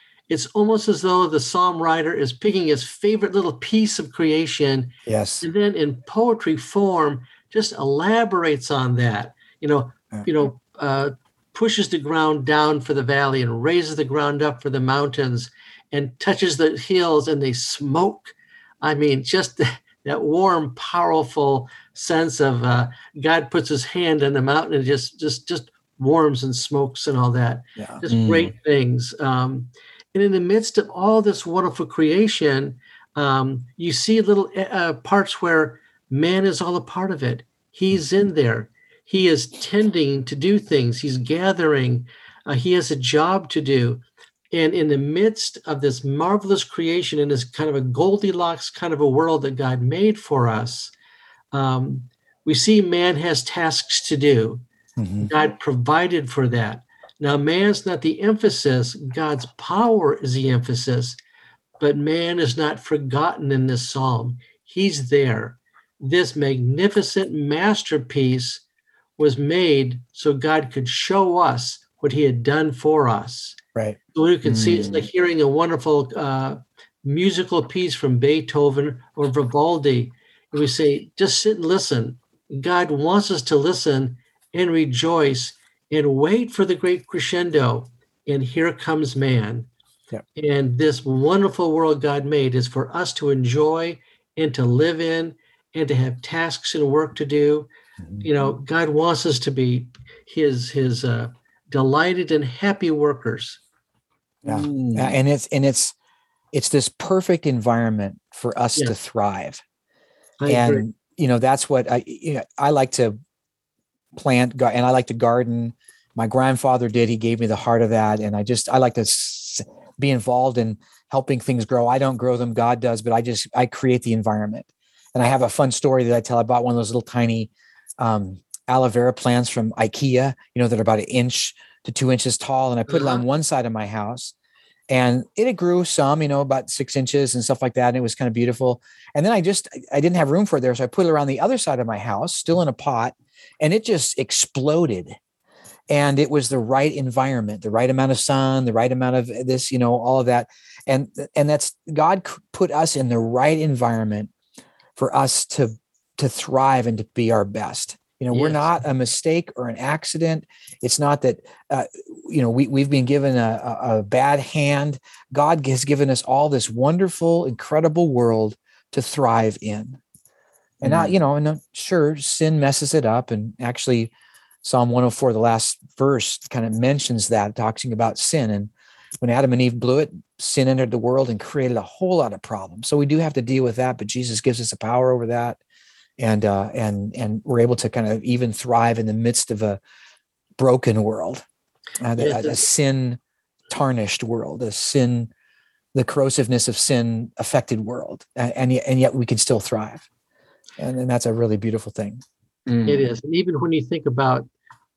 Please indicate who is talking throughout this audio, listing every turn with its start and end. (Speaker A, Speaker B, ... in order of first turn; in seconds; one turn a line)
Speaker A: 0.3-50.9
Speaker B: 5.1-5.5
Speaker C: 28.1-28.5
Speaker A: 51.5-54.6
Speaker B: 55.0-55.3
Speaker A: 55.2-61.2
Speaker A: 61.8-68.6
Speaker A: 69.2-73.6
Speaker A: 74.1-89.7
Speaker B: 74.5-75.0
Speaker A: 90.4-97.7
Speaker A: 98.2-103.6
Speaker B: 104.4-105.9
Speaker C: 104.5-105.2
Speaker B: 106.5-109.6
Speaker A: 110.4-110.8
Speaker B: 110.5-113.2
Speaker B: 114.1-134.3
Speaker A: 132.9-133.2
Speaker B: 134.9-145.2
Speaker B: 145.9-154.3
Speaker B: 155.0-170.0
Speaker A: 158.3-158.7
Speaker B: 170.8-185.6
Speaker C: 170.8-171.2
Speaker B: 186.2-189.8
Speaker B: 190.6-191.4
Speaker B: 192.0-195.3
Speaker A: 192.2-192.7
Speaker B: 195.9-200.1
Speaker B: 200.8-202.2
Speaker C: 202.7-203.1
Speaker A: 202.9-204.5